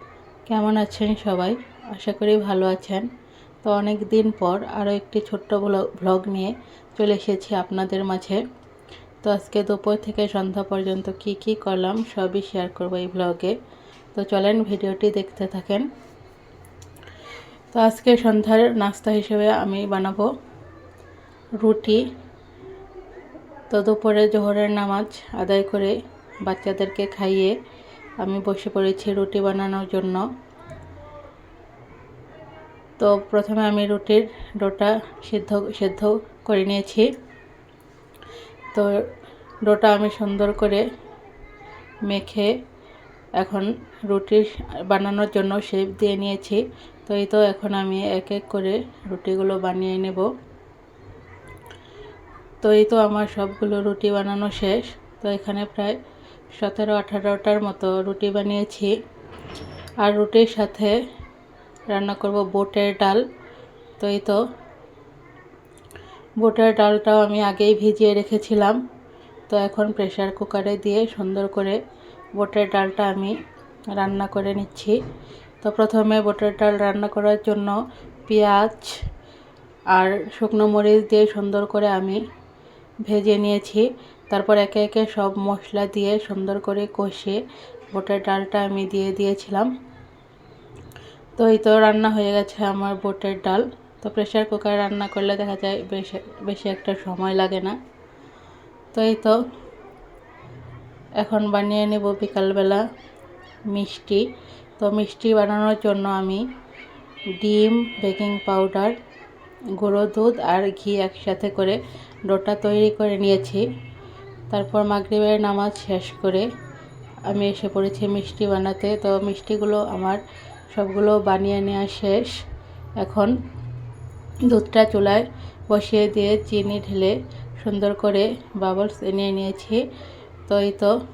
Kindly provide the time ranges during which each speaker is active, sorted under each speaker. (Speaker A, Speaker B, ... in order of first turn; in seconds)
Speaker A: 0.5-3.1, 3.6-8.4, 9.2-13.6, 14.1-15.9, 17.7-20.3, 21.6-22.1, 23.7-27.6, 28.2-30.2, 33.0-37.1, 38.7-39.1, 39.6-40.9, 42.0-42.6, 43.4-50.3, 52.6-56.0, 56.5-59.0, 60.0-61.0, 61.9-63.3, 64.0-64.4, 66.4-68.8, 69.5-71.8, 72.4-73.4, 73.9-75.0, 75.6-79.0, 79.9-82.2, 83.0-87.4, 87.9-89.7, 91.4-97.8, 98.9-99.4, 101.2-102.8, 103.7-104.3, 104.8-106.5, 107.4-109.0, 109.8-113.7, 114.5-116.5, 117.3-120.2, 120.7-122.4, 123.0-123.3, 124.4-129.8, 130.5-130.9